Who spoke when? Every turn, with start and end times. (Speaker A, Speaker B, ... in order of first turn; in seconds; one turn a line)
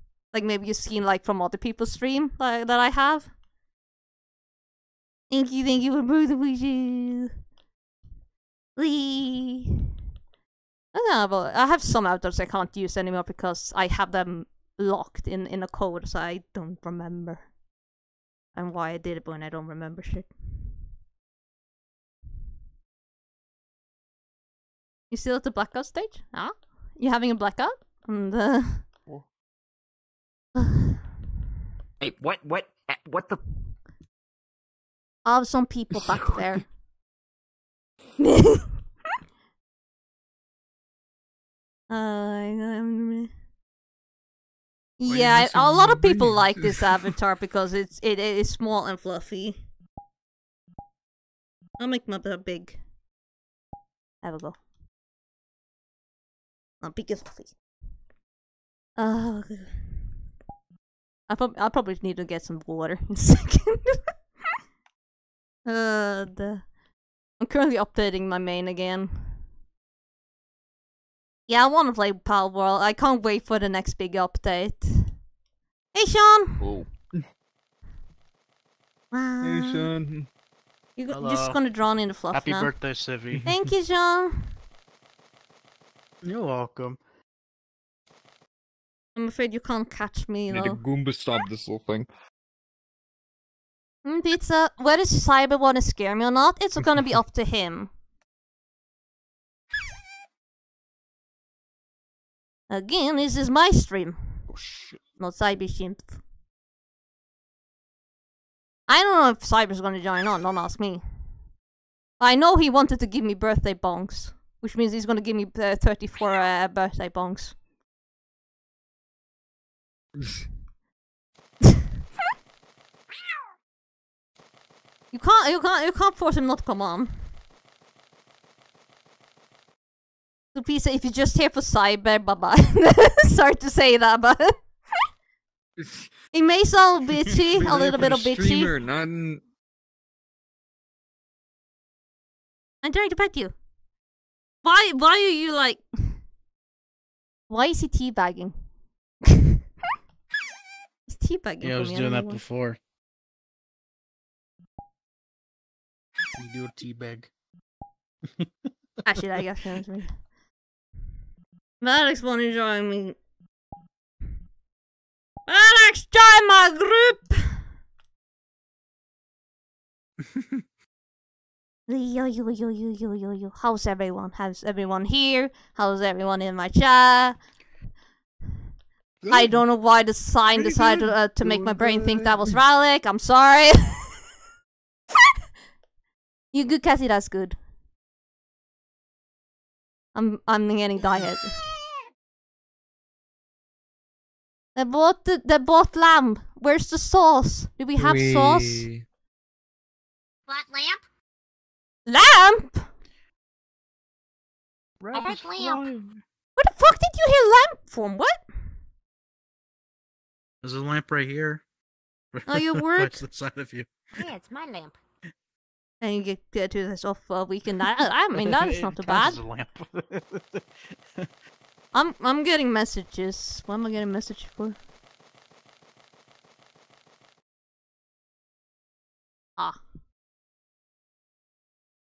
Speaker A: 0.3-3.3
Speaker A: 5.3-7.3
Speaker A: 8.8-9.8
Speaker A: 10.9-17.5
Speaker A: 18.5-20.3
Speaker A: 25.1-28.9
Speaker B: 32.0-33.2
Speaker A: 35.2-36.6
Speaker B: 35.9-36.4
Speaker A: 38.2-38.6
Speaker A: 41.9-43.3
Speaker A: 45.0-49.6
Speaker B: 45.1-47.1
Speaker A: 51.8-52.8
Speaker A: 54.2-54.6
Speaker A: 56.8-57.5
Speaker A: 59.0-59.9
Speaker A: 61.3-64.0
Speaker A: 65.6-66.7
Speaker A: 67.4-69.4
Speaker A: 71.5-75.2
Speaker A: 75.9-76.7
Speaker B: 76.6-77.2
Speaker A: 79.1-79.9
Speaker B: 79.4-80.3
Speaker A: 81.0-82.9
Speaker C: 81.1-81.6
Speaker C: 82.3-83.5
Speaker A: 83.5-84.5
Speaker C: 86.2-87.0
Speaker A: 89.2-90.8
Speaker B: 90.5-92.1
Speaker A: 94.0-97.9
Speaker A: 102.7-104.5
Speaker A: 105.2-106.2
Speaker A: 108.9-111.0
Speaker A: 112.2-117.6
Speaker A: 125.1-127.3
Speaker A: 130.5-134.6
Speaker B: 135.8-136.2
Speaker A: 136.3-138.7
Speaker B: 137.3-139.4
Speaker A: 142.8-143.5
Speaker A: 144.6-146.2
Speaker A: 147.5-148.7
Speaker A: 151.1-152.4
Speaker C: 151.6-152.8
Speaker C: 156.3-157.3
Speaker A: 159.0-160.2
Speaker A: 161.8-163.2
Speaker A: 165.5-167.6
Speaker A: 171.9-177.4
Speaker A: 179.3-184.2
Speaker B: 181.4-181.9
Speaker A: 186.5-187.6
Speaker A: 190.1-191.6
Speaker A: 194.8-198.9
Speaker B: 198.0-199.0
Speaker D: 200.5-201.0
Speaker A: 202.1-202.9
Speaker C: 205.0-206.2
Speaker D: 205.1-205.8
Speaker A: 206.6-208.4
Speaker C: 210.6-211.6
Speaker C: 212.3-213.9
Speaker A: 212.4-213.2
Speaker D: 214.2-214.9
Speaker A: 216.0-219.4
Speaker C: 218.3-220.6
Speaker A: 221.9-224.8